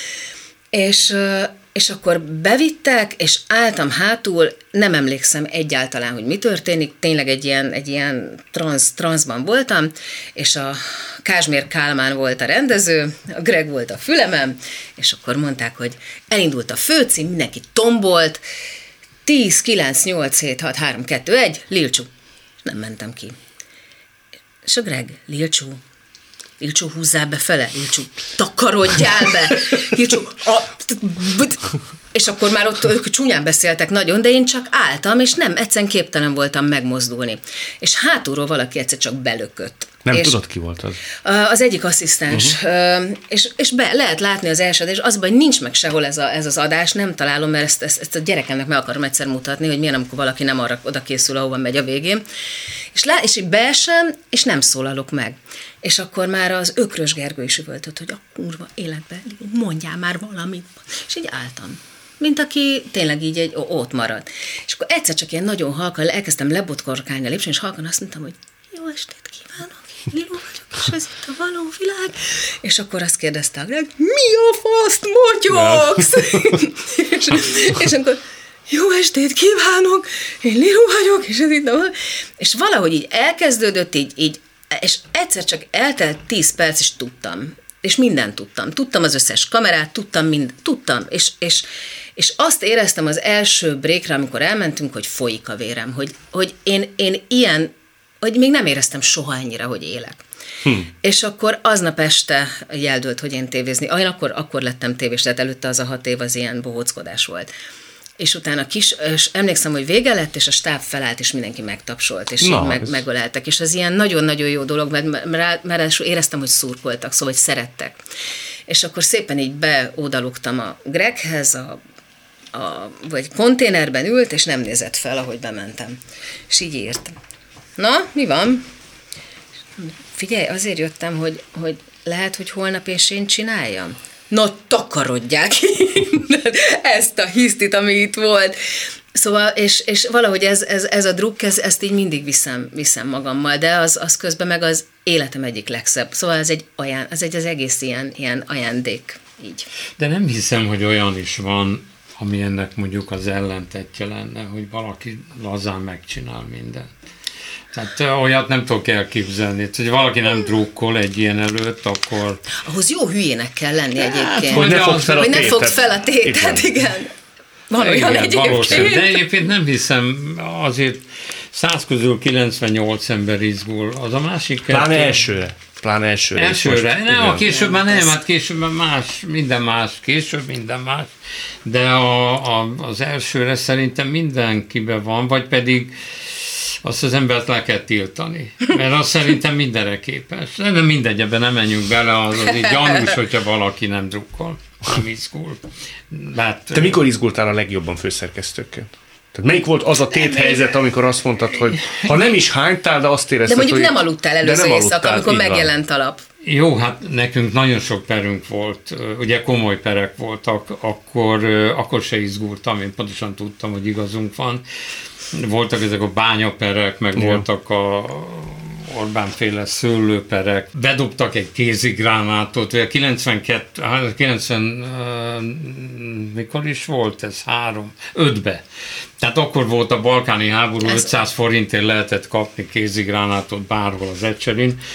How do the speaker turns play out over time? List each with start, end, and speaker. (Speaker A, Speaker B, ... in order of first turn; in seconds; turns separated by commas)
Speaker A: 0.7-18.4, Speaker A: 19.2-22.1, Speaker A: 22.6-23.4, Speaker A: 24.6-25.8, Speaker A: 26.6-40.4, Speaker B: 40.0-41.0, Speaker A: 41.2-52.2, Speaker A: 52.9-97.7, Speaker B: 75.5-76.4, Speaker A: 98.2-100.2, Speaker A: 101.0-107.5, Speaker A: 108.2-118.0, Speaker B: 112.4-113.0, Speaker A: 118.7-121.8, Speaker A: 122.5-126.0, Speaker A: 126.5-127.1, Speaker A: 127.8-128.7, Speaker A: 129.8-149.7, Speaker C: 150.0-156.9, Speaker C: 157.7-162.4, Speaker A: 162.6-167.1, Speaker C: 163.9-165.6, Speaker B: 164.5-166.7, Speaker A: 167.7-169.2, Speaker C: 167.8-175.2, Speaker B: 168.4-169.0, Speaker B: 174.7-177.5, Speaker C: 176.3-181.1, Speaker A: 177.4-178.1, Speaker C: 181.6-197.0, Speaker B: 196.7-205.7, Speaker A: 200.1-200.7, Speaker C: 201.7-202.1, Speaker A: 203.4-206.2, Speaker C: 206.4-214.6, Speaker C: 215.3-228.6, Speaker B: 217.2-217.4, Speaker C: 229.2-234.8